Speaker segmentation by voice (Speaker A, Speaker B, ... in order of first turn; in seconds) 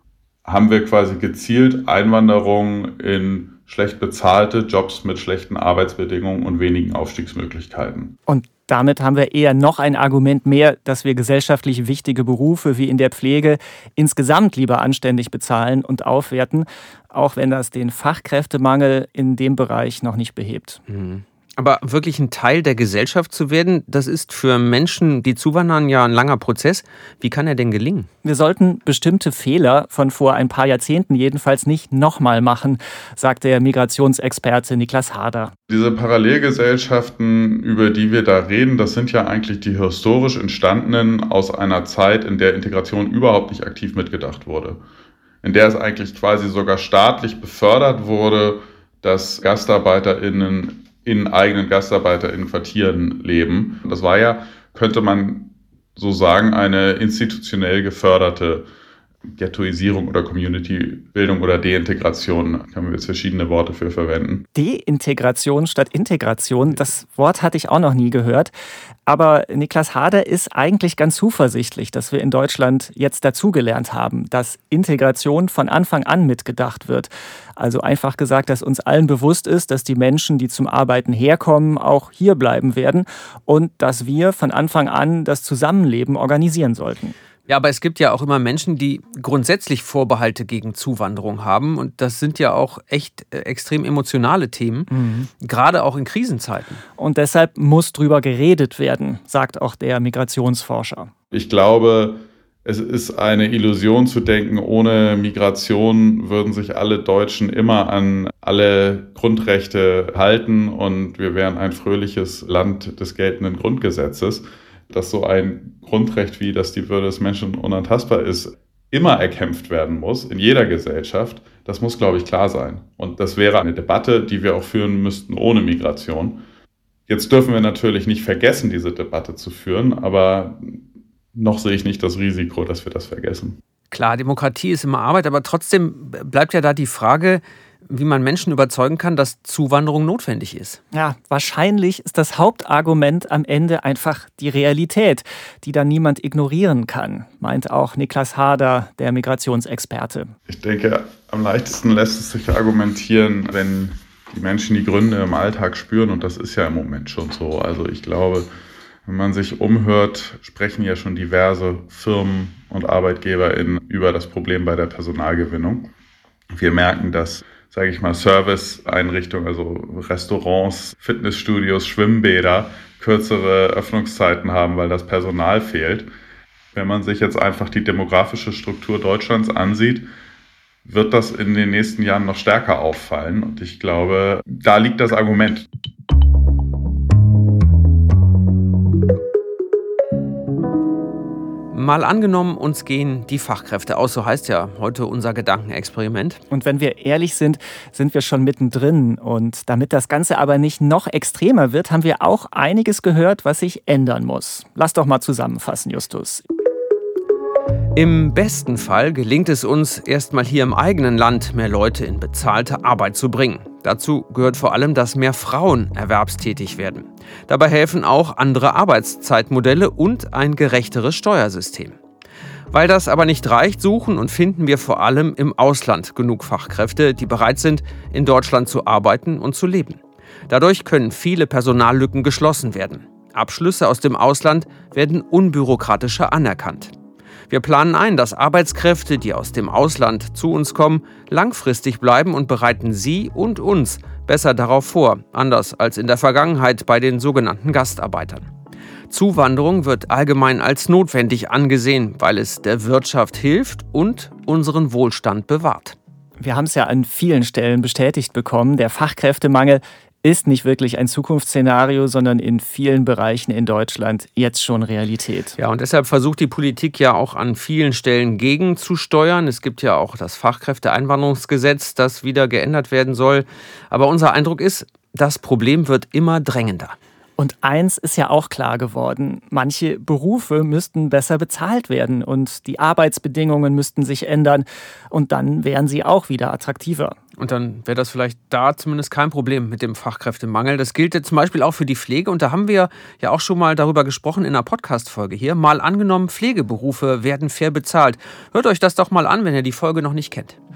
Speaker A: 0.5-8.2, 35.7-44.8, 45.4-58.7, 59.3-64.5, 101.3-126.4, 127.1-130.8, 131.3-133.6, 150.5-158.5, 159.1-165.9, 166.5-176.1, 176.7-180.1, 180.8-185.7
Speaker B: 8.3-20.8, 28.2-35.5, 64.5-68.5, 69.1-87.1, 94.9-95.3, 97.0-101.1, 140.9-150.3, 196.5-206.4, 256.4-265.6, 277.4-287.2
Speaker C: 20.9-28.1, 87.5-94.9, 95.4-96.8, 133.9-140.8, 191.7-196.4, 207.9-222.0, 222.7-236.9, 237.5-248.5, 249.1-256.0, 265.6-277.0, 287.4-300.6